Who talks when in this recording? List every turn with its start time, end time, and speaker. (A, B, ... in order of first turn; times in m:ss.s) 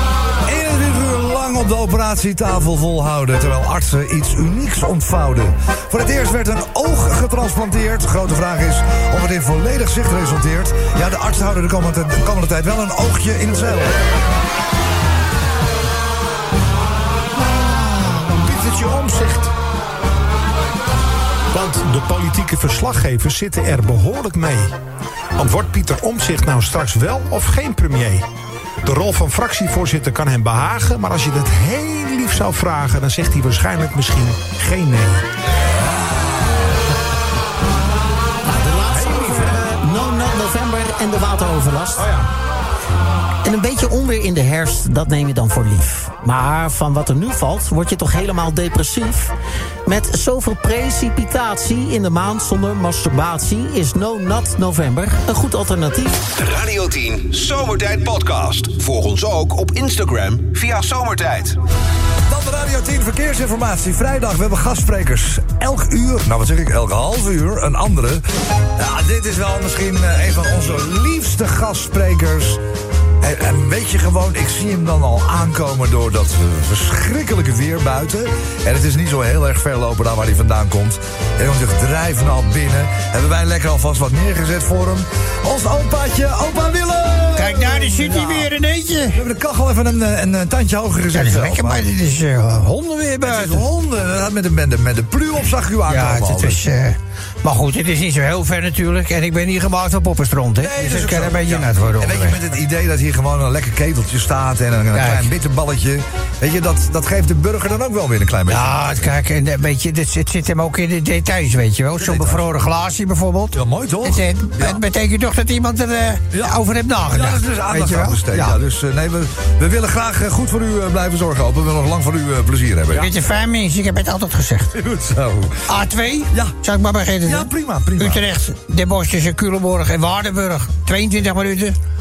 0:00.4-0:14.1 A
0:17.5-0:19.5 B
0:21.5-0:24.7 B
0:25.4-0:28.2 B
0:28.8-0:35.2 B
0:38.5-0:42.1 C
0:38.9-0:39.6 B
0:42.0-0:42.3 B
0:43.4-0:49.3 C
0:49.8-0:56.2 C
0:56.4-1:01.6 D
1:02.3-1:08.2 A
1:08.8-1:12.6 A
1:13.2-1:28.5 A
1:27.4-1:29.2 E
1:29.1-1:31.9 A
1:31.1-1:33.6 E
1:33.2-1:36.6 A
1:35.9-1:42.4 E
1:40.6-1:49.1 A
1:44.9-1:45.3 E
1:48.5-1:58.6 E
1:52.0-1:52.5 A
1:53.5-1:54.8 A
1:56.3-2:03.1 A
2:02.9-2:04.7 E
2:04.7-2:05.7 A
2:05.7-2:11.8 E
2:07.2-2:08.2 A